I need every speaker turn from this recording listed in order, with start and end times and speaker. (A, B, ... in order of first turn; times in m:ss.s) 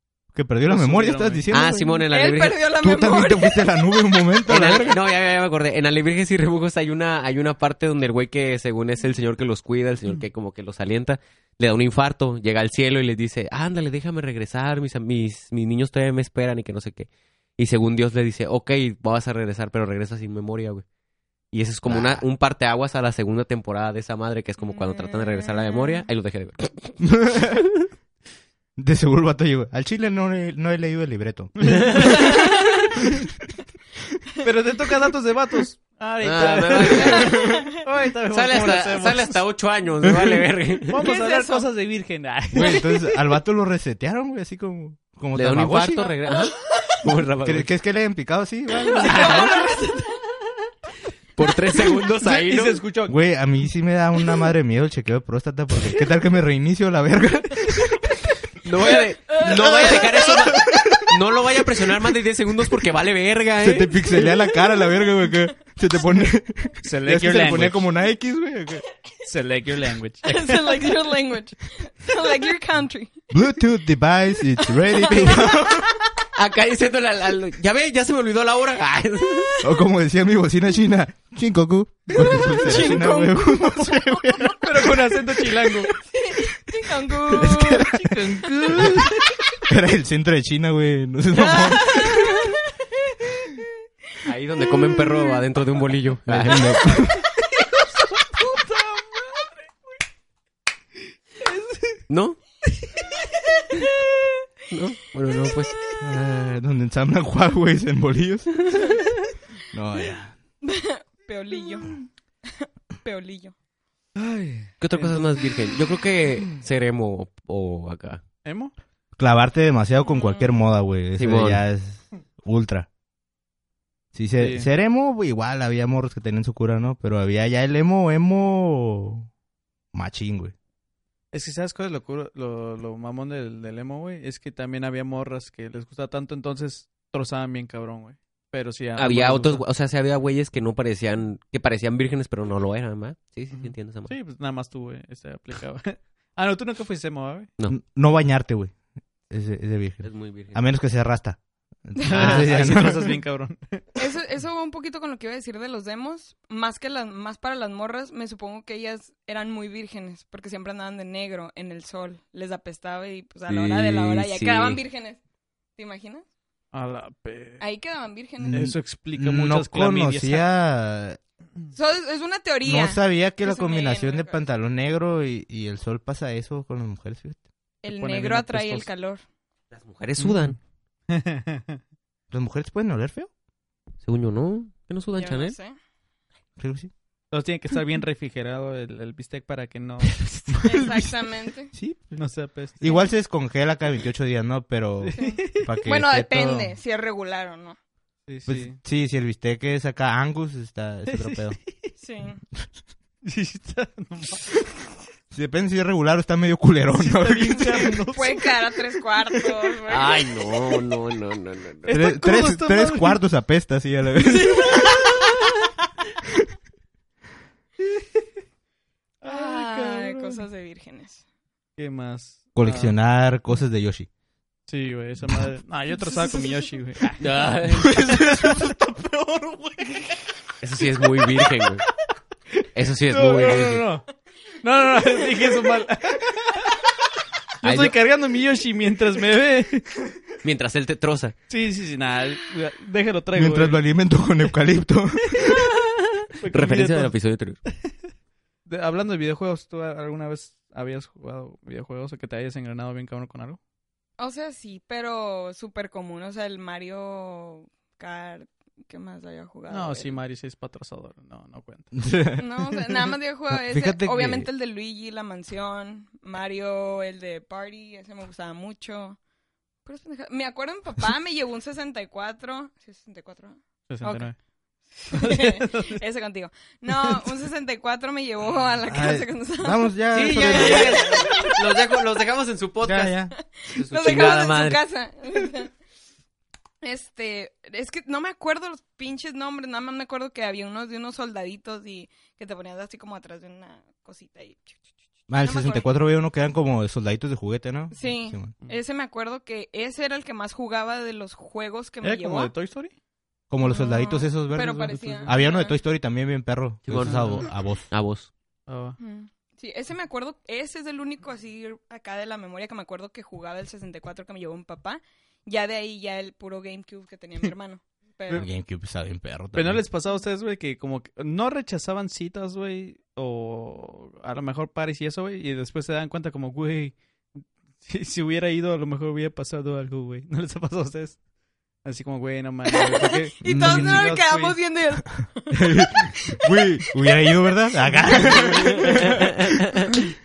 0:00.3-0:02.0 A
0:00.6-0:01.5 B
0:01.5-0:02.6 C
0:02.1-0:04.4 D
0:02.7-0:05.0 A
0:04.4-0:20.8 C
0:21.5-0:27.0 C
0:21.9-0:22.2 A
0:24.6-0:26.0 D
0:27.0-0:27.6 A
0:28.8-0:32.3 A
0:31.6-0:32.2 B
0:31.6-0:32.5 C
0:32.2-0:32.6 D
0:34.4-0:39.4 B
0:36.2-0:37.4 C
0:37.3-0:37.6 D
0:37.3-0:37.6 A
0:38.3-0:41.0 C
0:40.0-0:40.5 A
0:40.9-0:42.8 B
0:41.0-0:41.6 D
0:42.5-0:46.1 A
0:45.3-0:47.7 C
0:46.3-0:47.0 D
0:47.4-0:49.5 A
0:48.9-0:50.2 D
0:49.0-0:49.5 C
0:49.1-0:49.5 B
0:51.4-0:52.8 C
0:51.8-0:53.2 B
0:53.1-0:58.2 A
0:58.6-1:04.1 C
0:59.4-1:00.7 B
1:03.6-1:08.8 A
1:06.8-1:07.9 B
1:09.2-1:10.9 B
1:10.2-1:13.3 D
1:13.3-1:16.0 A
1:14.8-1:16.0 D
1:16.3-1:19.6 C
1:19.6-1:25.3 A
1:22.1-1:24.6 D
1:22.2-1:23.1 B
1:24.6-1:25.9 B
1:25.9-1:28.1 D
1:27.3-1:29.1 A
1:27.3-1:29.4 B
1:29.6-1:32.4 A
1:31.4-1:32.7 D
1:34.2-1:36.7 C
1:34.6-1:35.4 D
1:36.3-1:37.2 A
1:36.4-1:36.7 B
1:38.0-1:39.6 B
1:41.4-1:42.0 B
1:42.1-1:42.4 C
1:44.7-1:45.9 C
1:46.0-1:49.1 A
1:49.7-1:50.4 A
1:50.6-1:52.0 D
1:52.6-1:53.5 D
1:54.1-1:55.3 B
1:54.8-1:58.2 C
1:58.4-1:58.7 B
1:59.2-2:02.9 A
2:00.0-2:00.5 D
2:01.2-2:01.6 C
2:04.1-2:09.3 A
2:04.4-2:04.7 B
2:09.9-2:10.5 A
2:11.3-2:19.6 B
2:19.0-2:24.1 C
2:23.5-2:27.5 B
2:27.7-2:28.7 A
2:29.3-2:33.2 A
2:30.0-2:30.6 C
2:32.0-2:33.9 B
2:32.2-2:32.8 C
2:34.0-2:45.2 D
2:43.5-2:44.8 C
2:45.8-2:46.2 D
2:46.7-2:47.6 B
2:47.6-2:48.7 D
2:48.4-2:51.2 A
2:48.5-2:50.4 B
2:51.7-2:54.4 D
2:52.6-2:57.4 A
2:57.8-2:59.2 D
2:58.0-2:58.9 B
2:59.7-3:00.6 C
3:00.2-3:00.6 B
3:01.1-3:01.8 B
3:02.3-3:03.3 A
3:04.0-3:05.6 C
3:05.2-3:05.7 D
3:06.6-3:06.9 A
3:07.3-3:10.6 B
3:10.5-3:11.1 A
3:10.6-3:11.7 D
3:11.7-3:12.1 A
3:12.1-3:12.8 B
3:12.8-3:16.8 A
3:12.8-3:13.1 D
3:15.0-3:15.8 B
3:15.2-3:17.8 D
3:18.3-3:18.8 B
3:18.5-3:21.6 A
3:21.1-3:21.9 B
3:22.0-3:22.4 D
3:23.2-3:24.6 B
3:25.3-3:28.0 A
3:27.0-3:29.4 B
3:27.8-3:30.3 D
3:29.9-3:32.0 C
3:31.9-3:33.2 B
3:31.9-3:35.0 A
3:34.4-3:35.2 B
3:37.9-3:38.2 B
3:39.2-3:40.4 B
3:39.2-3:41.2 D
3:41.8-3:43.0 B
3:42.6-3:44.1 A
3:44.7-3:50.2 B
3:45.9-3:46.7 D
3:47.2-3:48.0 C
3:47.7-3:48.7 A
3:50.6-3:51.8 C
3:51.0-3:51.7 B
3:52.6-3:54.0 B
3:52.7-3:53.8 C
3:54.6-3:56.7 B
3:57.6-4:00.0 B
3:57.6-3:57.9 C
4:00.4-4:01.3 C
4:01.5-4:03.8 B
4:03.3-4:05.6 A
4:05.3-4:05.6 B
4:06.4-4:07.1 B
4:06.5-4:07.6 C
4:08.6-4:13.6 B
4:14.2-4:20.2 D
4:19.7-4:22.0 B
4:21.9-4:22.4 A
4:22.4-4:29.2 D
4:23.5-4:24.5 A
4:29.8-4:34.3 D
4:33.9-4:34.4 B
4:34.9-4:41.6 D
4:35.1-4:36.0 B
4:36.9-4:37.3 B
4:38.9-4:41.2 A
4:40.1-4:44.8 C
4:42.9-4:43.2 B
4:42.9-4:43.2 A
4:43.6-4:45.7 D
4:44.0-4:44.3 B
4:46.8-4:54.8 D
4:55.3-4:58.5 A
4:55.3-4:56.0 D
4:57.9-5:02.5 D
5:02.0-5:02.9 B
5:03.5-5:07.9 A
5:03.6-5:05.8 D
5:04.9-5:05.4 B
5:06.9-5:08.3 C
5:06.9-5:07.5 B
5:08.7-5:09.0 B
5:09.0-5:18.5 D
5:18.3-5:19.8 A
5:19.5-5:27.0 B
5:27.8-5:31.2 B
5:31.8-5:34.6 B
5:32.7-5:36.4 D
5:33.4-5:34.0 A
5:35.1-5:39.8 A
5:37.9-5:38.6 D
5:38.1-5:38.8 B